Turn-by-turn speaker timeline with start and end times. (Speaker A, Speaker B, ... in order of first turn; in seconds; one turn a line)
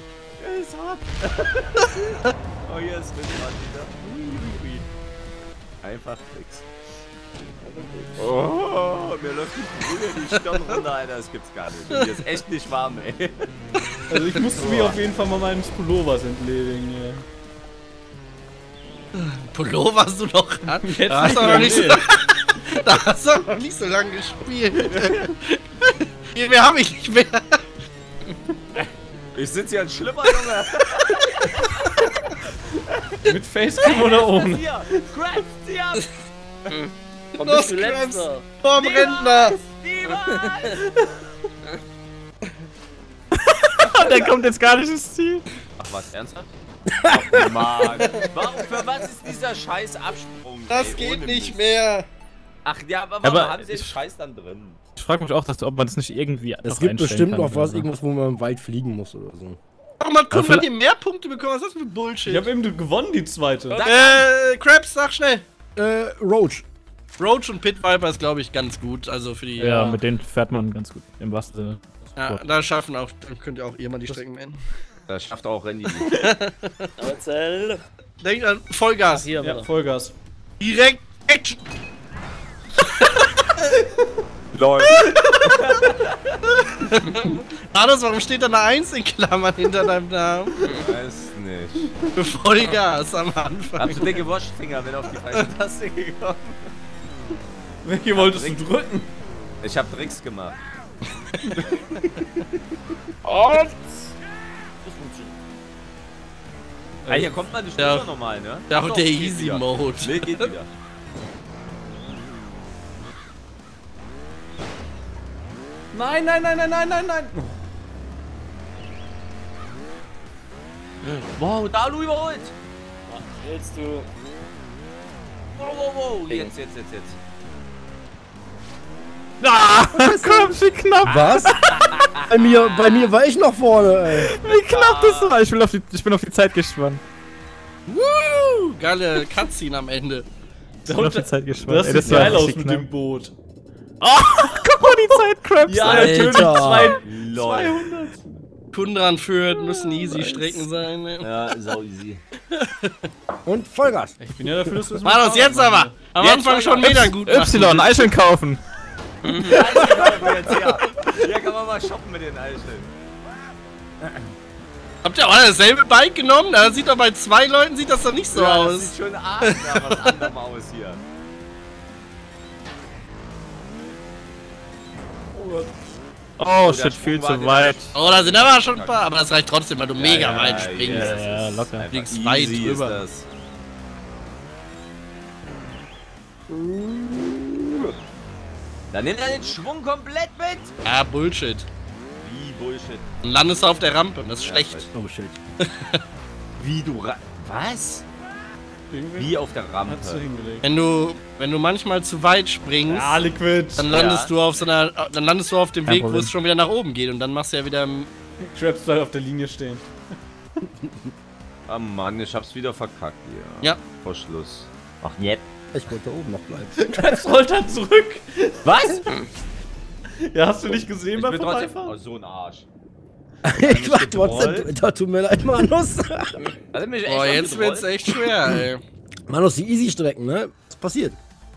Speaker A: 0.4-4.2
Speaker B: 4.2-4.8
Speaker A: 5.8-6.7
Speaker C: 7.6-8.3
Speaker A: 8.2-13.5
Speaker B: 10.3-10.6
Speaker B: 11.9-12.2
Speaker D: 14.1-17.2
Speaker A: 14.6-15.0
Speaker B: 19.1-27.6
Speaker D: 20.8-22.0
Speaker A: 29.4-32.0
Speaker D: 33.2-35.1
Speaker A: 33.8-36.1
Speaker C: 36.7-38.5
Speaker B: 37.4-39.6
Speaker A: 38.7-40.9
Speaker E: 43.5-45.4
Speaker A: 45.8-46.5
Speaker F: 46.9-48.0
Speaker A: 47.1-51.6
Speaker B: 48.0-48.6
Speaker B: 50.7-52.1
Speaker A: 52.6-54.8
Speaker E: 53.2-53.9
Speaker E: 55.0-57.9
Speaker F: 56.7-59.6
Speaker B: 60.0-62.5
Speaker E: 60.3-60.6
Speaker D: 62.2-63.8
Speaker A: 63.7-64.3
Speaker B: 63.9-65.5
Speaker F: 65.8-66.6
Speaker B: 67.2-70.0
Speaker E: 69.6-72.4
Speaker B: 72.2-74.6
Speaker A: 75.1-76.2
Speaker B: 76.0-76.9
Speaker C: 77.0-77.8
Speaker B: 78.2-79.3
Speaker C: 79.1-79.7
Speaker D: 79.4-80.1
Speaker B: 80.6-81.6
Speaker B: 82.8-83.1
Speaker A: 84.5-86.3
Speaker D: 85.1-85.8
Speaker B: 86.7-90.6
Speaker A: 90.8-92.0
Speaker B: 92.2-94.2
Speaker A: 93.8-96.7
Speaker D: 97.8-99.1
Speaker A: 98.1-98.6
Speaker A: 99.6-100.6
Speaker A: 101.6-102.1
Speaker A: 104.8-105.4
Speaker A: 107.1-110.7
Speaker B: 107.8-108.1
Speaker B: 108.7-110.5
Speaker D: 115.9-117.6
Speaker A: 121.0-122.5
Speaker C: 123.1-124.1
Speaker A: 125.6-127.2
Speaker C: 126.3-126.6
Speaker E: 129.4-131.7
Speaker F: 130.0-131.6
Speaker A: 131.1-133.1
Speaker F: 132.3-134.3
Speaker E: 134.2-137.0
Speaker A: 134.4-135.4
Speaker B: 137.9-140.3
Speaker E: 140.9-142.9
Speaker D: 140.9-143.3
Speaker E: 144.0-146.5
Speaker D: 145.7-148.3
Speaker F: 145.9-147.0
Speaker A: 146.8-148.0
Speaker B: 148.7-151.6
Speaker C: 150.3-150.6
Speaker A: 151.2-152.2
Speaker B: 152.6-153.0
Speaker F: 153.5-154.2
Speaker D: 154.2-156.0
Speaker B: 155.0-158.1
Speaker E: 156.2-158.6
Speaker C: 159.2-159.6
Speaker A: 159.3-162.9
Speaker B: 159.8-160.8
Speaker A: 164.0-164.3
Speaker B: 165.0-170.3
Speaker A: 168.3-171.0
Speaker D: 175.3-175.7
Speaker E: 176.4-177.9
Speaker A: 176.7-179.0
Speaker B: 177.9-183.0
Speaker A: 180.0-183.3
Speaker E: 180.9-181.9
Speaker F: 186.9-187.6
Speaker A: 188.9-190.7
Speaker B: 190.8-191.7
Speaker A: 192.2-193.1
Speaker B: 193.2-194.9
Speaker A: 194.4-194.9
Speaker F: 194.9-195.4
Speaker B: 195.6-196.0
Speaker A: 196.6-198.1
Speaker D: 198.9-200.7
Speaker A: 199.2-200.2
Speaker B: 200.6-203.2
Speaker D: 202.9-203.9
Speaker B: 203.8-208.1
Speaker A: 203.9-204.3
Speaker E: 205.9-206.3
Speaker D: 208.4-209.9
Speaker A: 211.7-215.4
Speaker F: 215.7-217.2
Speaker D: 216.8-219.0
Speaker A: 218.6-219.1
Speaker D: 220.3-222.0
Speaker A: 221.1-222.7
Speaker F: 223.4-226.5
Speaker A: 223.6-224.7
Speaker A: 226.7-227.9
Speaker B: 227.1-228.8
Speaker F: 229.3-231.2